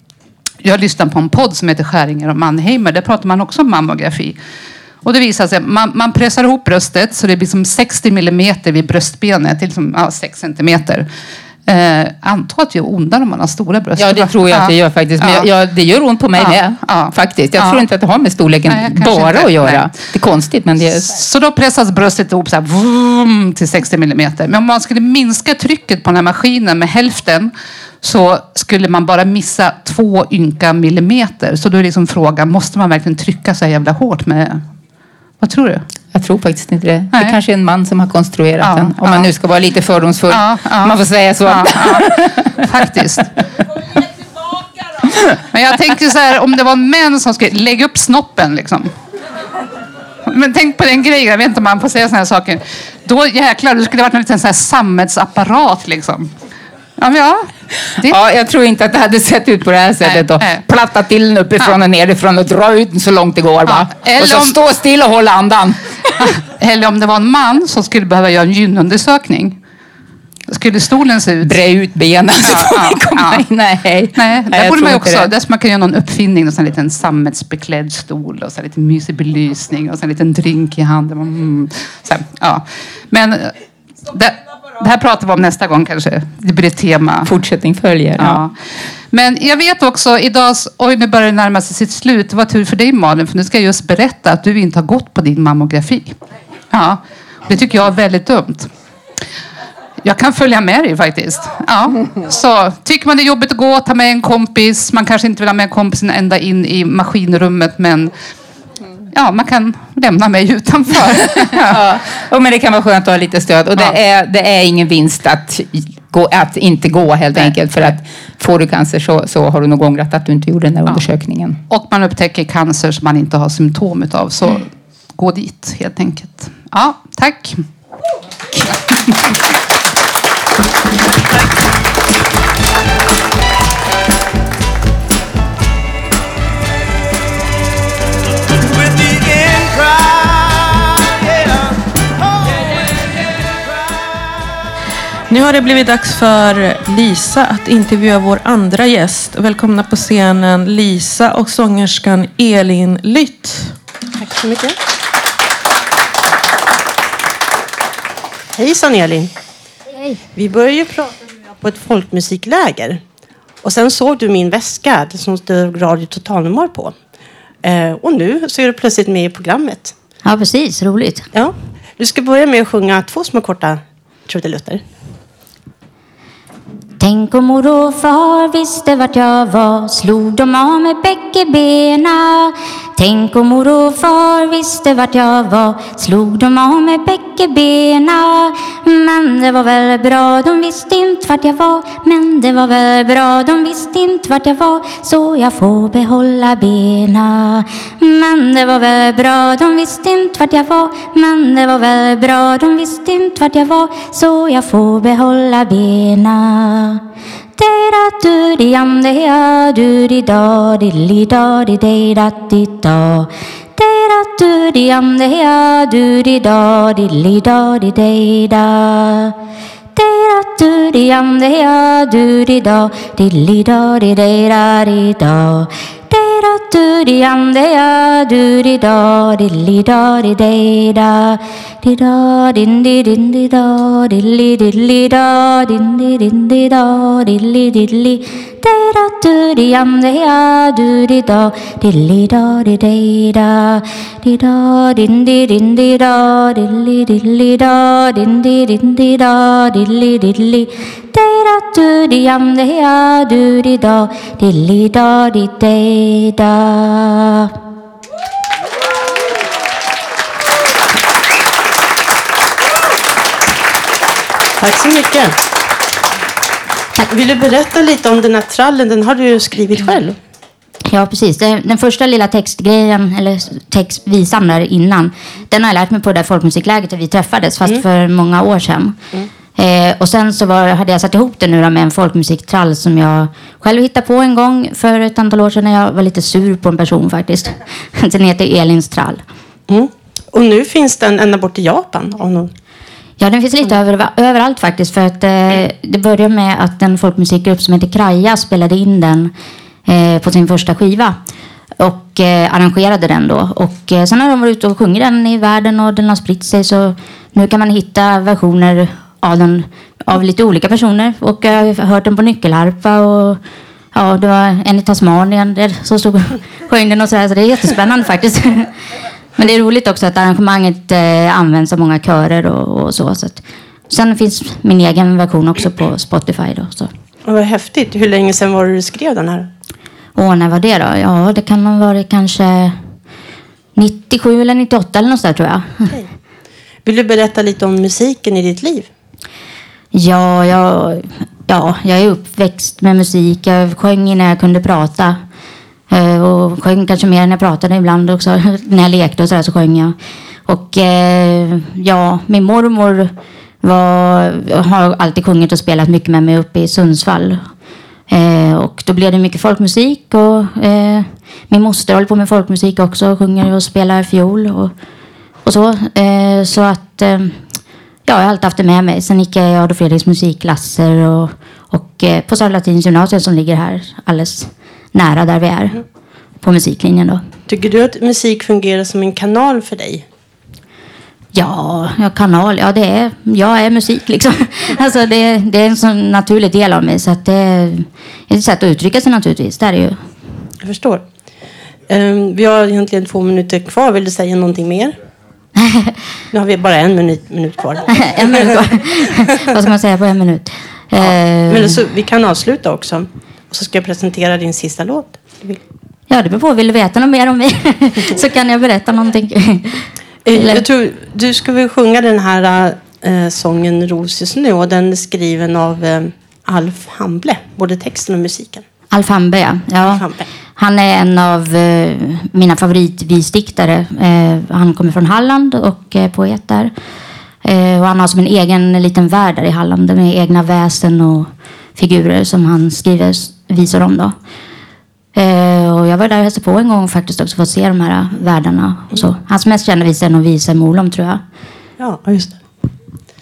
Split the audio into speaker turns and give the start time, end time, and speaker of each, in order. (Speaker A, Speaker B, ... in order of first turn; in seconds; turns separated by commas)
Speaker A: 0.6-4.4, Speaker A: 5.0-11.1, Speaker A: 11.7-15.5, Speaker B: 14.0-21.2, Speaker A: 16.3-17.9, Speaker A: 18.6-20.1, Speaker A: 20.8-34.7, Speaker A: 35.4-35.9, Speaker B: 36.1-42.5, Speaker A: 37.1-37.4, Speaker A: 38.6-39.3, Speaker A: 40.3-43.3, Speaker A: 45.5-48.9, Speaker A: 50.2-56.3, Speaker A: 57.0-58.2, Speaker B: 58.0-66.3, Speaker A: 60.0-60.6, Speaker A: 63.6-64.6, Speaker A: 66.2-69.6, Speaker A: 70.5-71.6, Speaker B: 71.4-75.3, Speaker A: 72.4-73.5, Speaker A: 74.1-83.5, Speaker A: 84.1-87.3, Speaker B: 87.2-88.4, Speaker A: 88.2-88.6, Speaker A: 89.1-96.2, Speaker A: 96.7-98.7, Speaker A: 100.0-108.1, Speaker A: 109.1-112.0, Speaker B: 111.2-121.6, Speaker A: 117.3-118.0, Speaker A: 120.8-121.1, Speaker A: 121.7-127.6, Speaker C: 145.3-153.7, Speaker D: 154.2-154.8, Speaker D: 158.6-159.3, Speaker D: 160.3-163.0, Speaker D: 163.6-166.9, Speaker D: 167.6-169.9, Speaker E: 170.2-171.2, Speaker D: 171.3-174.8, Speaker E: 177.0-207.0, Speaker E: 207.6-219.3, Speaker E: 219.9-257.5, Speaker D: 264.6-265.3, Speaker D: 267.0-270.2, Speaker E: 270.9-279.0, Speaker E: 279.5-289.2, Speaker D: 289.7-292.5, Speaker E: 293.2-299.3, Speaker E: 299.9-301.2, Speaker E: 301.8-313.4, Speaker E: 313.9-318.7, Speaker E: 319.4-326.9, Speaker D: 327.2-329.5, Speaker E: 330.1-332.8, Speaker E: 333.8-335.9, Speaker D: 336.8-338.9, Speaker E: 339.9-345.2, Speaker E: 345.9-349.9, Speaker E: 350.4-357.4, Speaker E: 358.1-364.7, Speaker E: 365.4-367.4, Speaker E: 368.1-375.8, Speaker E: 376.4-377.2, Speaker D: 377.5-380.0, Speaker E: 381.3-390.0, Speaker D: 390.6-391.0, Speaker D: 391.9-394.9, Speaker E: 395.6-395.9, Speaker D: 396.3-398.5, Speaker E: 398.1-401.8, Speaker D: 401.0-405.6, Speaker E: 406.1-410.6, Speaker D: 410.2-418.6, Speaker E: 418.9-420.0, Speaker D: 419.8-420.3, Speaker E: 420.6-426.7, Speaker E: 427.4-434.1, Speaker E: 435.1-441.2, Speaker D: 441.8-442.4